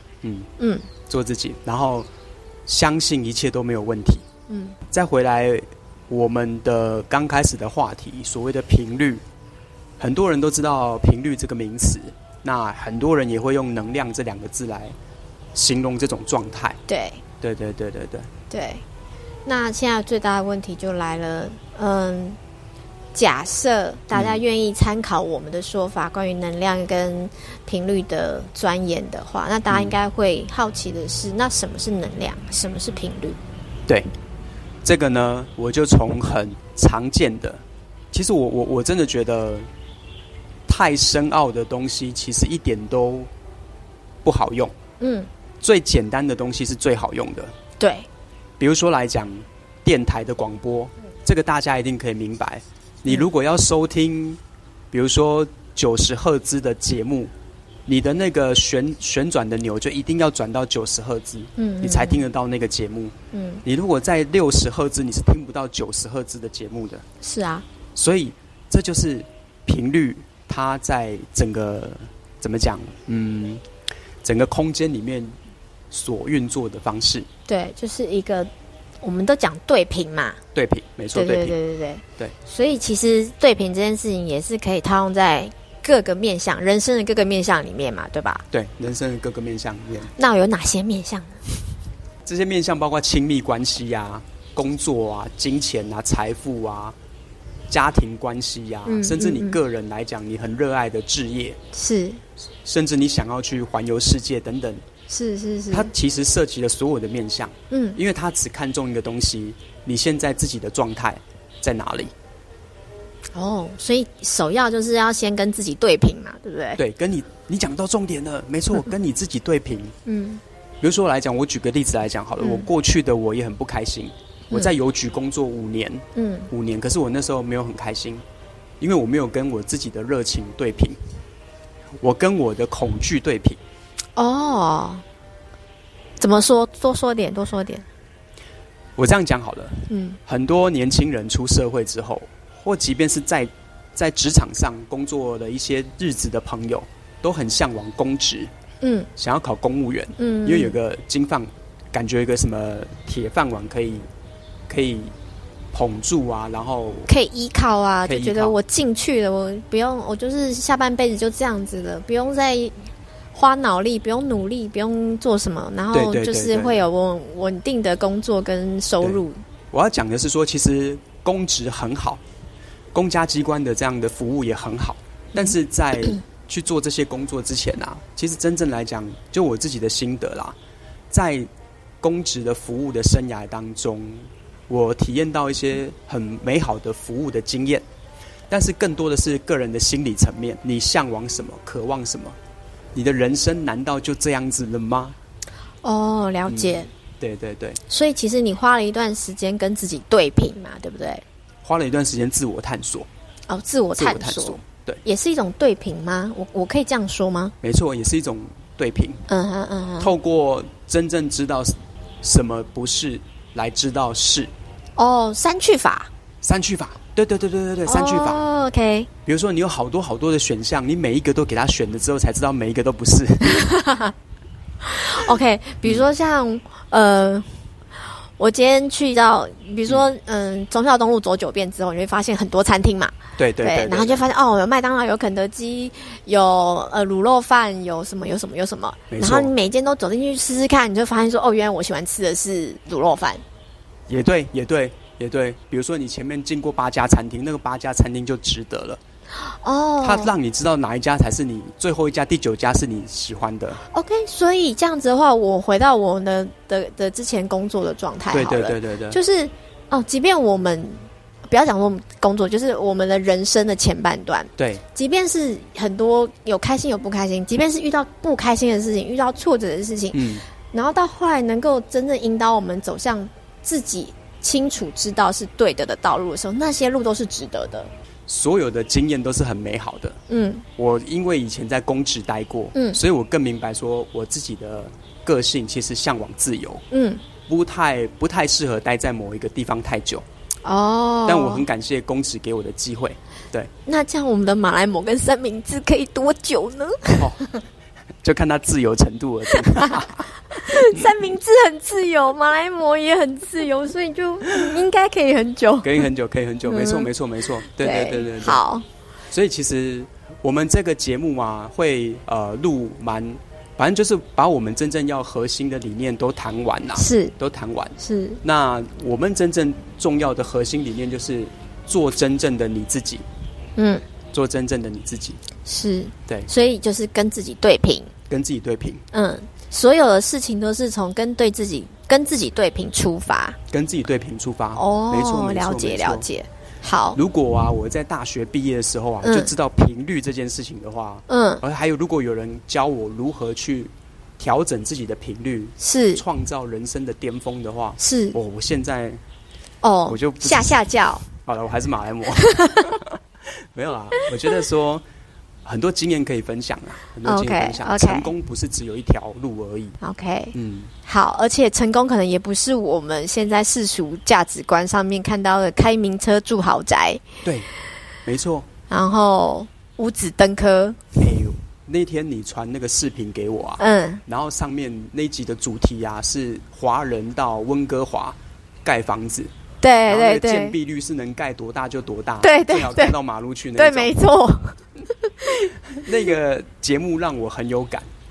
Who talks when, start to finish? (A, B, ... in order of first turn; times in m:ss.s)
0:00.2-0:00.5 A
0:00.6-0:00.9 B
0:01.1-0:02.1 A
0:02.7-0:04.2 A
0:04.5-0:04.8 B
0:04.9-0:09.2 A
0:10.0-0:15.0 A
0:15.5-0:16.8 A
0:16.9-0:17.2 B
0:17.4-0:18.3 A
0:18.5-0:18.8 B
0:19.4-0:22.4 B
0:23.1-0:33.4 B
0:24.1-0:24.4 A
0:29.7-0:29.9 A
0:34.8-0:39.7 A
0:40.7-0:43.3 A
0:44.2-0:44.7 A
0:45.0-0:45.3 B
0:45.6-0:47.5 A
0:47.8-0:48.1 B
0:48.6-0:54.4 A
0:54.9-0:57.3 A
0:57.9-1:03.1 A
1:01.6-1:02.2 B
1:03.3-1:03.6 B
1:03.6-1:07.0 A
1:07.2-1:07.6 B
1:08.0-1:13.6 A
1:14.2-1:15.3 A
1:15.9-1:17.3 A
1:17.5-1:18.5 B
1:19.0-1:20.4 B
1:20.5-1:21.6 A
1:21.1-1:28.4 B
1:28.5-1:30.1 A
1:30.2-1:31.7 B
1:32.2-1:37.0 A
1:37.7-1:41.6 A
1:38.8-1:39.6 B
1:41.7-1:42.2 B
1:42.6-1:44.8 A
1:45.1-1:45.9 B
1:45.7-1:52.1 A
1:47.7-1:48.0 B
1:53.3-1:56.8 B
1:56.8-1:59.9 A
2:00.0-2:00.4 B
2:00.8-2:08.2 A
2:02.4-2:02.7 B
2:06.2-2:06.5 B
2:08.8-2:11.0 A
2:12.0-2:13.6 A
2:14.2-2:15.0 B
2:16.2-2:17.8 B
2:19.0-2:28.5 A
2:19.9-2:20.2 B
2:28.8-2:29.1 B
2:29.2-2:34.1 A
2:30.2-2:30.8 B
2:34.7-2:35.1 A
2:35.7-2:37.1 A
2:37.1-2:49.4 B
2:38.0-2:38.6 A
2:45.9-2:46.8 A
2:49.0-2:52.2 A
2:52.9-3:00.6 A
3:01.1-3:01.5 A
3:02.0-3:07.8 A
3:08.5-3:12.4 A
3:12.9-3:15.2 A
3:15.8-3:16.9 B
3:16.4-3:17.8 A
3:17.9-3:21.2 B
3:21.6-3:23.1 A
3:23.5-3:27.5 B
3:24.0-3:25.0 A
3:27.6-3:29.2 A
3:29.3-3:30.1 B
3:30.0-3:34.5 A
3:35.0-3:36.1 B
3:36.4-3:38.4 A
3:37.8-3:39.1 B
3:39.2-3:43.7 A
3:43.5-3:44.1 B
3:44.8-3:47.6 B
3:48.4-4:03.4 B
3:53.4-3:54.2 A
3:59.1-3:59.5 A
4:04.1-4:09.0 A
4:09.4-4:10.3 B
4:10.0-4:13.8 A
4:13.9-4:37.9 B
4:18.3-4:19.2 A
4:24.6-4:24.8 A
4:30.1-4:30.4 A
4:38.3-4:40.2 A
4:40.3-4:40.6 B
4:40.8-4:46.8 A
4:42.7-4:43.0 B
4:46.9-4:47.2 B
4:47.5-4:50.2 A
4:50.6-4:51.6 B
4:51.2-4:53.7 A
4:53.9-4:57.5 B
4:57.2-4:57.5 A
4:58.2-5:01.1 A
5:00.5-5:06.1 B
5:05.8-5:08.6 A
5:06.6-5:07.1 B
5:07.7-5:08.8 B
5:09.3-5:23.2 A
5:17.0-5:17.3 B
5:18.0-5:18.4 B
5:23.8-5:24.0 B
5:24.3-5:25.4 A
5:25.6-5:28.1 B
5:28.3-5:29.0 A
5:29.1-5:33.6 B
5:33.7-5:36.3 A
5:34.7-5:37.2 B
5:37.1-5:49.2 A
5:39.2-5:39.5 B
5:41.3-5:41.6 B
5:45.8-5:46.2 B
5:48.0-5:48.4 B
5:49.8-5:51.2 B
5:50.1-5:53.2 A
5:52.4-5:52.9 B
5:53.7-5:55.0 A
5:55.6-6:00.0 A
5:57.2-5:58.3 B
6:00.0-6:00.5 B
6:00.5-6:00.9 A
6:01.0-6:07.2 B
6:08.2-6:08.7 A
6:08.9-6:11.0 B
6:11.2-6:19.5 A
6:13.8-6:14.2 B
6:19.8-6:20.7 B
6:20.1-6:24.1 A
6:22.4-6:23.2 B
6:23.8-6:25.7 B
6:25.9-6:28.1 A